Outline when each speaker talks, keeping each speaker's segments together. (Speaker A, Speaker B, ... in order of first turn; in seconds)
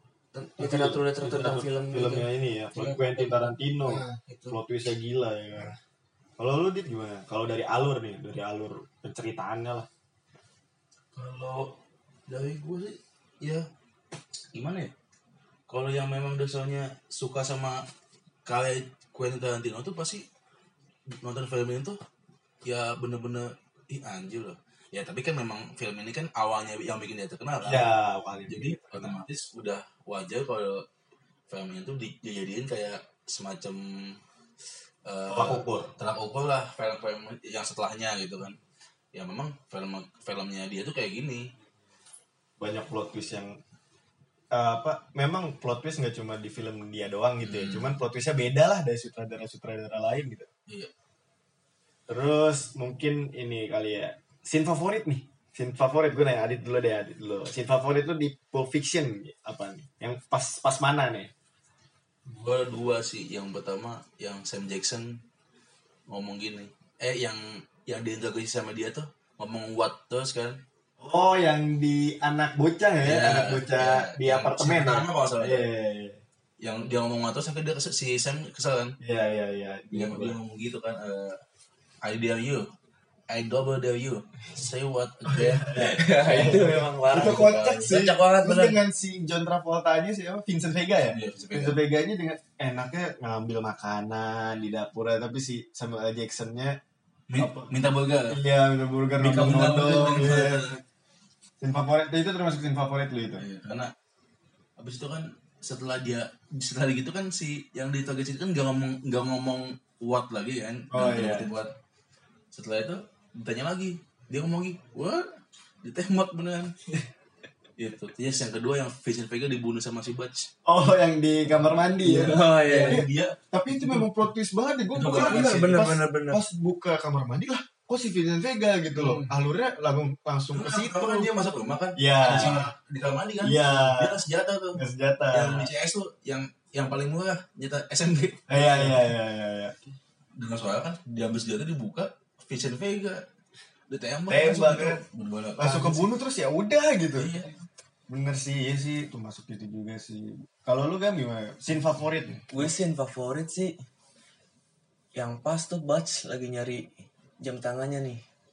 Speaker A: 0.3-4.6, 85.7-88.8, 122.0-123.0, 125.0-126.4, 152.5-153.8, 155.2-158.2
Speaker B: 0.6-5.7, 6.4-9.9, 27.6-29.2, 35.3-35.9, 42.6-43.6, 44.5-50.5, 52.1-61.3, 71.0-76.2, 79.0-80.4, 85.3-96.8, 97.4-97.7, 98.3-100.7, 101.6-103.5, 110.9-111.5, 120.7-131.3, 132.0-132.7, 133.4-134.2, 134.8-135.7, 138.5-139.8, 144.3-145.0, 145.6-147.4, 148.1-152.7
Speaker C: 11.2-11.8, 12.3-13.7, 14.5-14.9, 15.7-17.9, 18.5-20.3, 21.1-22.0, 22.6-27.9, 28.5-30.9, 31.5-34.2, 35.1-38.6, 39.1-41.5, 47.4-47.9, 62.3-65.2, 66.1-70.6, 73.0-75.7, 76.6-79.0, 79.9-81.4, 82.0-82.7, 83.3-87.9, 91.1-91.8, 97.3-98.4, 99.2-100.8, 103.4-103.9, 104.8-111.8, 112.5-116.8, 117.8-120.5, 122.1-124.1, 124.9-125.8, 128.9-129.3, 130.5-139.1, 140.4-143.2, 143.9-146.1, 147.2-147.5